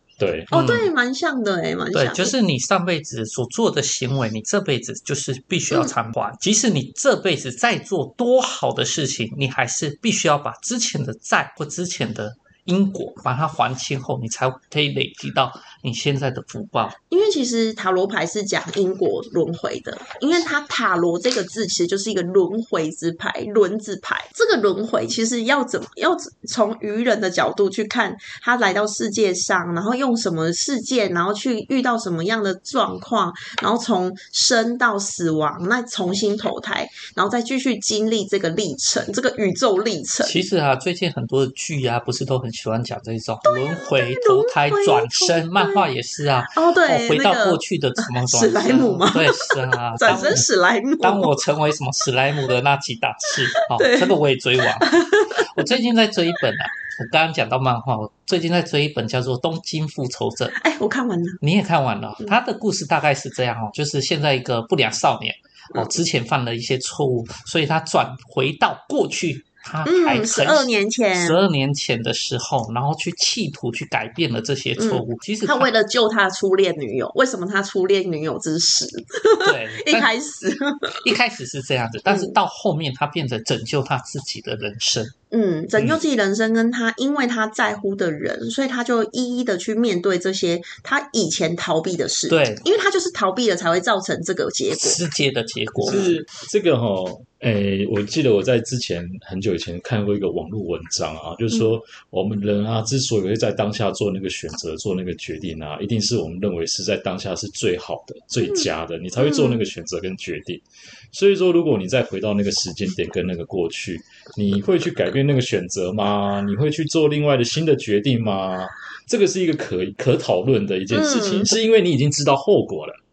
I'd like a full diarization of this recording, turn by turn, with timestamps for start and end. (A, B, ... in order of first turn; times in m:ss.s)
0:00.2-0:00.5 A
0:00.5-0:00.9 B
0:00.5-0:02.3 C
0:01.9-0:17.0 B
0:17.1-0:40.4 C
0:40.2-0:50.4 B
0:43.4-0:45.9 C
0:46.5-0:47.6 C
0:48.2-0:51.4 C
0:51.0-1:00.6 B
0:53.7-0:54.1 C
0:54.8-0:55.7 C
1:00.5-1:01.4 C
1:01.4-1:15.7 B
1:05.7-1:06.0 C
1:09.8-1:11.4 C
1:14.8-1:21.1 C
1:19.4-1:20.1 B
1:21.0-1:25.1 B
1:22.1-1:22.3 C
1:25.3-1:35.0 C
1:32.3-1:32.6 B
1:34.7-1:36.1 B
1:35.8-2:03.0 A
1:35.9-1:36.1 C
1:49.2-1:49.7 C
2:00.9-2:01.5 C